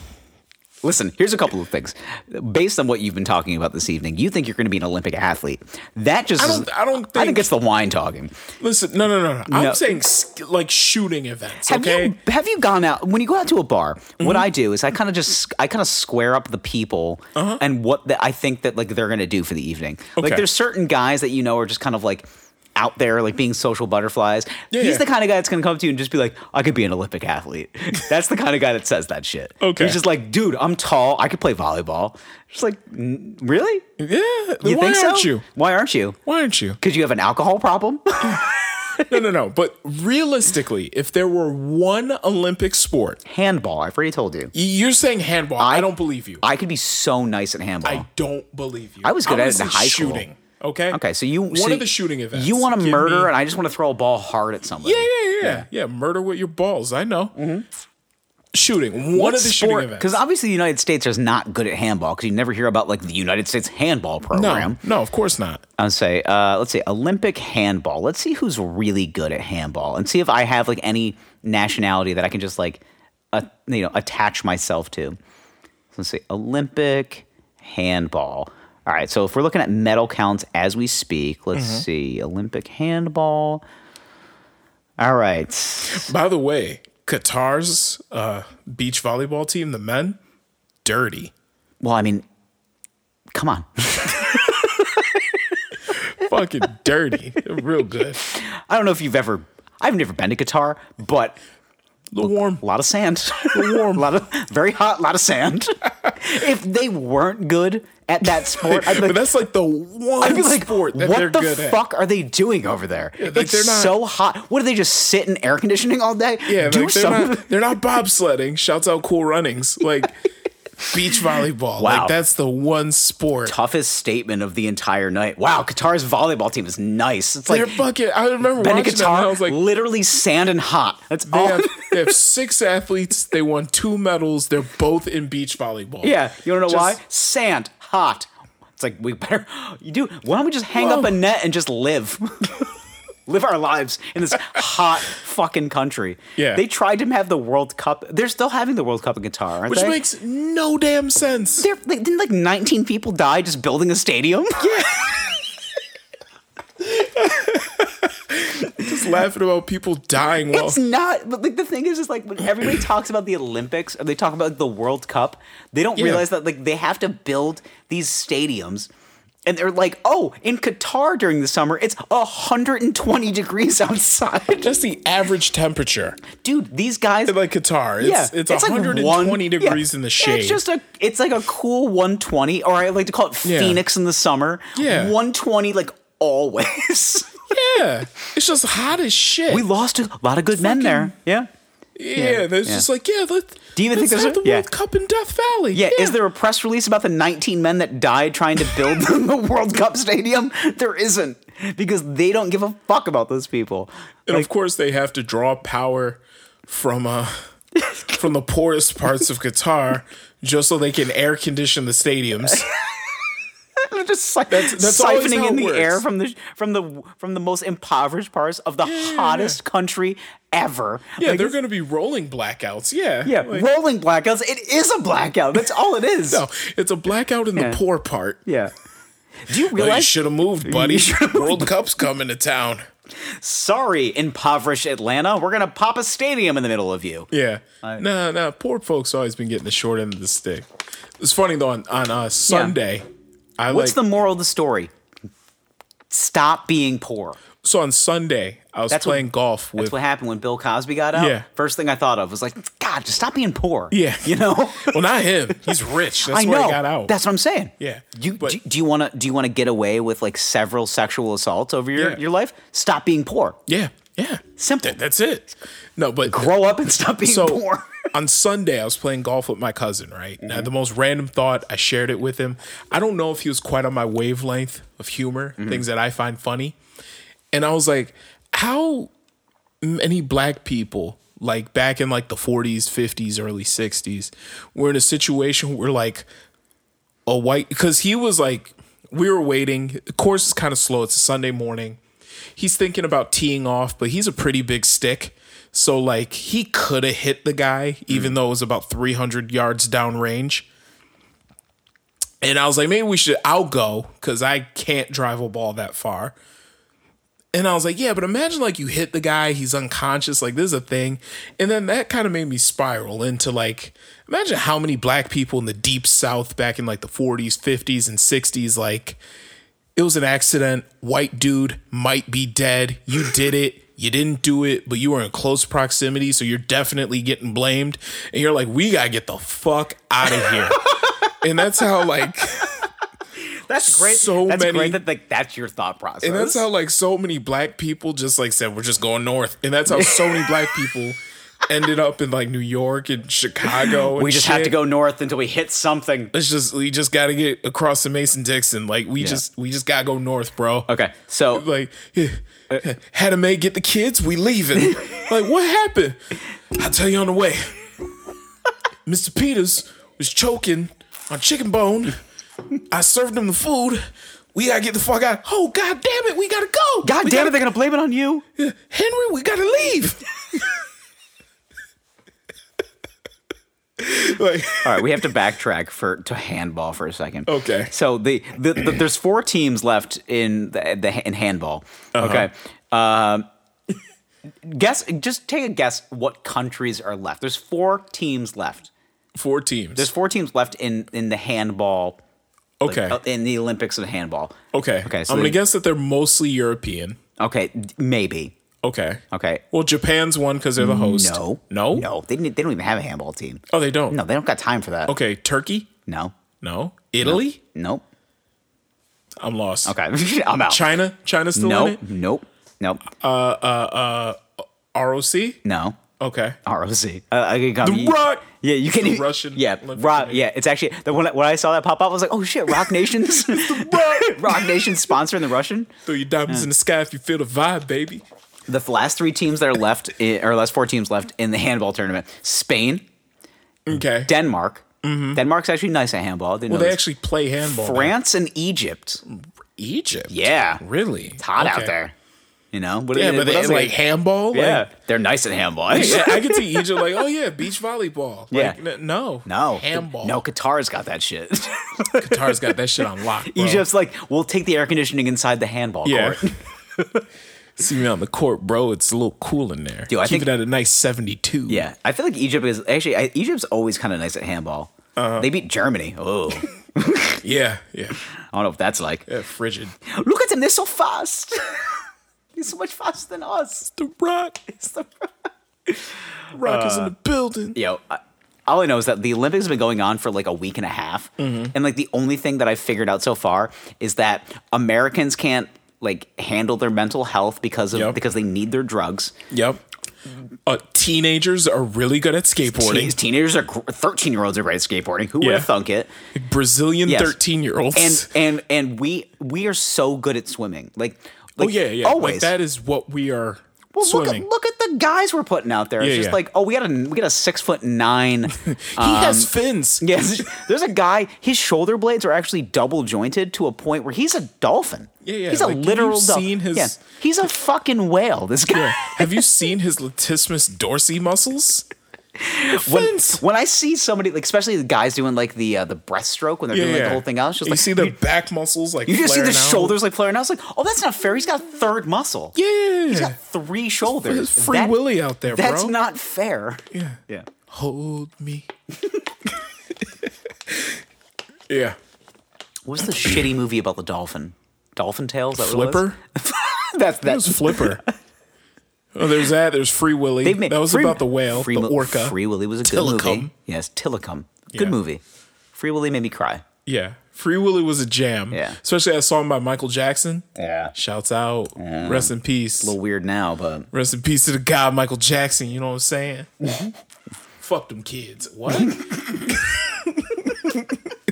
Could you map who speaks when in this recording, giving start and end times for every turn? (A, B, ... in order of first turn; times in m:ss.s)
0:00.8-0:08.4 A
0:06.4-0:07.5 B
0:08.6-0:12.2 B
0:09.5-0:10.0 A
0:11.7-0:33.8 A
0:14.2-0:14.5 B
0:17.4-0:17.6 B
0:20.2-0:20.5 B
0:24.7-0:25.0 B
0:29.6-0:30.0 B
0:34.0-0:35.4 B
0:34.6-0:36.2 A
0:36.2-0:36.8 B
0:36.8-0:39.2 A
0:39.0-0:43.2 B
0:43.2-0:44.5 A
0:44.5-0:46.4 B
0:45.6-0:48.1 A
0:47.8-0:53.3 B
0:49.0-0:50.3 A
0:50.9-0:55.7 A
0:54.8-0:57.3 B
0:57.4-0:57.7 A
0:58.5-1:00.2 B
0:59.1-1:04.8 A
1:04.3-1:05.6 B
1:05.8-1:12.8 A
1:13.3-1:15.2 A
1:15.9-1:23.6 A
1:21.5-1:21.9 B
1:25.0-1:26.1 A
1:25.9-1:30.2 B
1:30.8-1:31.3 B
1:31.8-1:32.2 A
1:33.4-1:35.4 A
1:35.9-1:38.2 B
1:38.2-1:41.4 A
1:42.1-1:42.6 B
1:42.2-1:49.2 A
1:43.5-1:44.1 B
1:48.5-1:51.8 B
1:50.2-1:57.5 A
1:53.2-1:54.0 B
1:56.5-2:00.2 B
2:00.9-2:03.6 B
2:01.8-2:02.2 A
2:03.5-2:07.8 A
2:07.5-2:09.6 B
2:08.6-2:12.1 A
2:11.3-2:17.0 B
2:16.0-2:22.7 A
2:20.8-2:21.1 B
2:23.3-2:30.0 A
2:26.4-2:26.6 B
2:29.7-2:31.7 B
2:31.6-2:35.1 A
2:34.8-2:35.0 B
2:36.8-2:40.8 B
2:40.5-2:48.9 A
2:46.0-2:46.3 B
2:49.5-2:54.7 A
2:54.6-2:56.2 B
2:56.4-2:57.4 A
2:57.3-3:00.6 B
2:58.0-3:07.5 A
3:03.4-3:03.8 B
3:04.8-3:05.2 B
3:07.5-3:09.7 B
3:09.5-3:11.5 A
3:10.6-3:11.1 B
3:12.0-3:16.2 B
3:12.2-3:12.9 A
3:13.8-3:14.7 A
3:15.7-3:24.5 A
3:24.3-3:27.4 B
3:27.8-3:28.1 A
3:28.1-3:32.7 B
3:32.5-3:33.2 A
3:33.8-3:41.5 A
3:34.5-3:36.0 B
3:38.8-3:39.6 B
3:41.2-3:43.7 B
3:43.2-3:46.4 A
3:46.3-3:48.4 B
3:48.5-3:48.7 A
3:49.4-3:51.7 A
3:49.7-3:52.8 B
3:53.2-3:57.3 A
3:57.3-4:00.6 B
4:01.2-4:03.0 B
4:02.5-4:02.8 A
4:03.6-4:04.0 B
4:03.7-4:04.9 A
4:06.1-4:07.4 A
4:07.6-4:10.0 B
4:08.9-4:15.0 A
4:11.1-4:11.5 B
4:13.9-4:17.1 B
4:15.7-4:23.6 A
4:17.8-4:18.6 B
4:22.0-4:22.2 B
4:23.7-4:26.5 B
4:24.6-4:25.0 A
4:26.3-4:28.1 A
4:27.2-4:36.8 B
4:30.4-4:30.7 A
4:35.6-4:35.8 A
4:37.5-4:39.1 B
4:39.8-4:46.3 B
4:47.3-4:52.0 B
4:52.6-5:00.7 B
5:02.4-5:06.4 B
5:07.5-5:19.2 B
5:20.0-5:32.9 B
5:30.3-5:31.3 A
5:33.4-5:36.6 A
5:33.8-5:35.0 B
5:36.2-5:44.8 B
5:39.9-5:40.5 A
5:43.9-5:46.3 A
5:46.3-5:50.9 B
5:50.9-5:51.6 A
5:51.5-5:57.8 B
5:54.8-5:55.2 A
5:59.1-6:02.2 B
6:02.9-6:07.6 B
6:07.0-6:08.4 A
6:08.6-6:10.7 B
6:14.0-6:15.3 B
6:14.8-6:23.5 A
6:17.5-6:17.9 B
6:22.2-6:22.5 B
6:24.6-6:28.9 A
6:29.4-6:30.1 B
6:30.0-6:32.2 A
6:32.8-6:33.2 B
6:32.9-6:35.6 A
6:34.7-6:37.2 B
6:37.4-6:38.6 A
6:38.8-6:42.1 B
6:39.3-6:39.6 A
6:40.8-6:45.1 A
6:43.7-6:44.2 B
6:45.1-6:45.9 B
6:46.1-6:46.3 A
6:46.6-6:47.6 B
6:47.2-6:48.0 A
6:49.4-6:49.9 B
6:49.9-6:50.8 A
6:50.7-6:52.0 B
6:51.6-6:53.0 A
6:53.2-6:55.6 B
6:55.6-6:56.0 A
6:56.2-6:56.6 B
6:56.6-7:05.9 A
6:57.8-7:00.5 B
7:03.4-7:04.8 B
7:06.0-7:08.2 B
7:08.7-7:13.0 A
7:13.9-7:14.3 B
7:14.3-7:17.0 A
7:15.0-7:15.4 B
7:16.7-7:18.2 B
7:17.7-7:19.2 A
7:19.3-7:21.9 B
7:20.3-7:20.8 A
7:21.4-7:22.1 A
7:22.7-7:24.0 A
7:23.1-7:24.9 B
7:24.5-7:27.1 A
7:25.9-7:30.4 B
7:28.5-7:28.8 A
7:29.5-7:37.2 A
7:32.2-7:33.8 B
7:36.0-7:36.4 B
7:37.8-7:41.9 B
7:40.1-7:40.5 A
7:41.7-7:47.4 A
7:45.2-7:45.5 B
7:47.4-7:48.2 B
7:48.5-7:49.3 A
7:49.3-7:50.0 B
7:50.0-7:52.0 A
7:52.6-7:53.9 A
7:54.0-7:54.6 B
7:54.7-7:57.1 A
7:56.5-7:57.8 B
7:57.8-8:09.4 A
8:01.4-8:01.7 B
8:07.9-8:08.2 B
8:09.5-8:09.8 B
8:10.7-8:13.2 B
8:12.7-8:16.1 A
8:15.4-8:15.7 B
8:16.3-8:18.3 B
8:17.1-8:17.4 A
8:18.0-8:22.5 A
8:21.6-8:24.5 B
8:23.9-8:39.4 A
8:26.0-8:26.4 B
8:28.5-8:30.4 B
8:35.2-8:37.0 B
8:38.7-8:41.9 B
8:42.4-8:48.2 A
8:42.7-8:43.4 B
8:46.7-8:50.0 B
8:49.1-8:52.6 A
8:52.6-8:53.4 B
8:53.1-8:57.5 A
8:54.2-8:55.9 B
8:56.9-8:58.7 B
9:00.7-9:01.0 B
9:01.7-9:02.0 B
9:02.9-9:08.1 A
9:05.6-9:06.2 B
9:07.2-9:08.0 B
9:09.2-9:13.5 B
9:10.4-9:15.2 A
9:15.8-9:16.6 A
9:16.9-9:23.0 B
9:18.5-9:18.8 A
9:20.6-9:20.9 A
9:21.8-9:23.9 A
9:23.9-9:26.5 B
9:26.6-9:26.9 A
9:27.6-9:29.3 B
9:28.8-9:29.4 A